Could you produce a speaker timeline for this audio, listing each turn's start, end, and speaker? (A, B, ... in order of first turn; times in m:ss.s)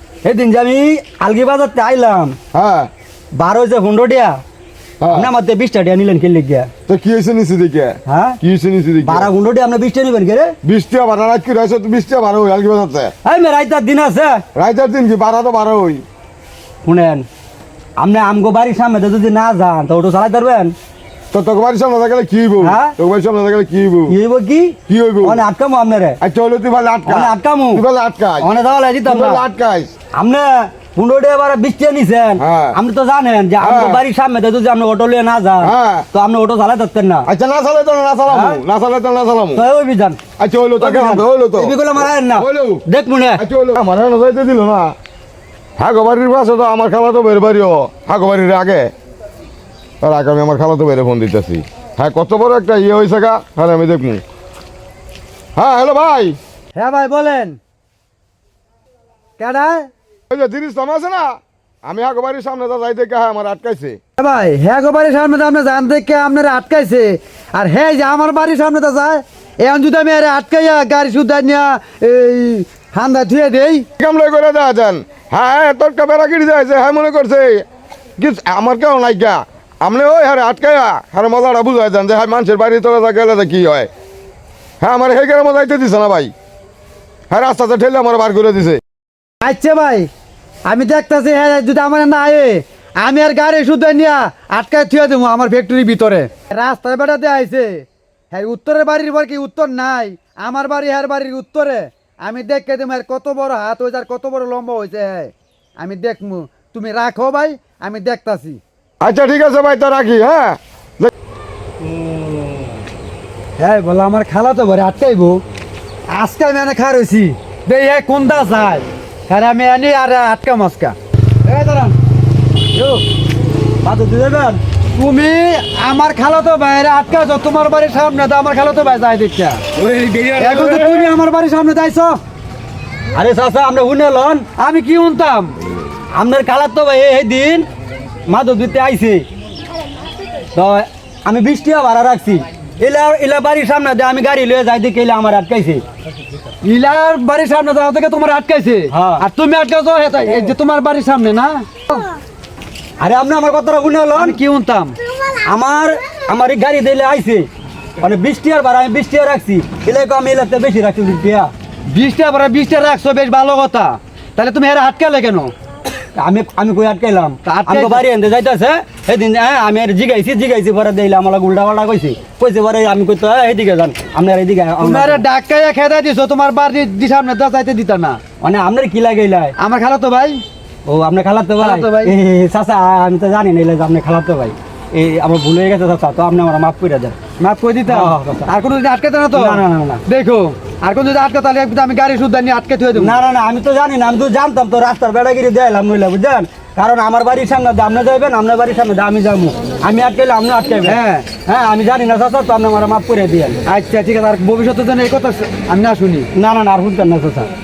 0:00.2-0:02.4 A
0:02.5-0:02.9 B
0:03.4-0:04.4 A
0:05.0-0:05.3 B
0:05.1-0:06.7 A
0:06.9-0:09.3 B
0:08.1-0:08.4 A
0:09.0-0:10.5 A
0:10.6-0:13.1 B
0:13.2-0:14.4 A
0:14.5-0:16.0 B
0:16.8-0:17.3 A
0:18.0-0:20.7 A
0:21.3-0:24.1 B
0:22.6-0:22.9 A
0:24.1-0:26.2 A
0:24.9-0:25.4 B
0:26.2-0:28.5 B
0:27.0-0:27.8 A
0:28.4-0:29.4 A
0:29.0-0:29.9 B
0:30.2-0:37.3 A
0:32.4-0:32.8 B
0:33.6-0:34.0 B
0:35.6-0:36.0 B
0:37.3-0:39.6 B
0:38.3-0:38.6 A
0:39.5-0:40.2 A
0:40.4-0:42.8 B
0:40.8-0:43.4 A
0:43.4-0:44.9 B
0:45.8-0:48.9 B
0:50.0-0:54.2 B
0:55.6-0:56.4 B
0:56.7-0:57.6 C
0:59.4-0:59.9 C
1:00.3-1:04.0 B
1:04.2-1:13.8 C
1:14.0-1:17.6 B
1:18.2-1:23.9 B
1:24.8-1:26.3 B
1:27.3-1:28.8 B
1:29.4-1:30.1 C
1:30.6-1:48.6 C
1:49.0-1:51.1 B
1:53.6-1:55.4 C
1:56.1-2:01.9 C
2:02.8-2:03.0 C
2:03.8-2:04.6 A
2:05.0-2:09.6 C
2:09.8-2:11.1 A
2:10.4-2:12.2 C
2:13.1-2:14.4 A
2:14.6-2:15.6 C
2:16.1-2:17.7 A
2:18.3-2:19.2 A
2:20.5-2:25.8 A
2:26.6-2:32.1 C
2:28.9-2:29.2 A
2:33.0-2:34.4 A
2:34.1-2:35.0 C
2:35.4-2:37.5 A
2:38.0-2:41.5 A
2:41.9-2:45.5 C
2:46.2-2:55.2 A
2:47.4-2:48.0 C
2:54.8-2:58.2 C
2:58.4-2:59.5 A
2:59.6-3:00.4 C
3:00.8-3:07.2 A
3:01.6-3:02.1 C
3:07.4-3:13.2 C
3:07.9-3:08.5 A
3:09.3-3:10.0 A
3:13.0-3:23.6 A
3:20.8-3:21.2 C
3:23.6-3:26.3 C
3:26.3-3:27.5 A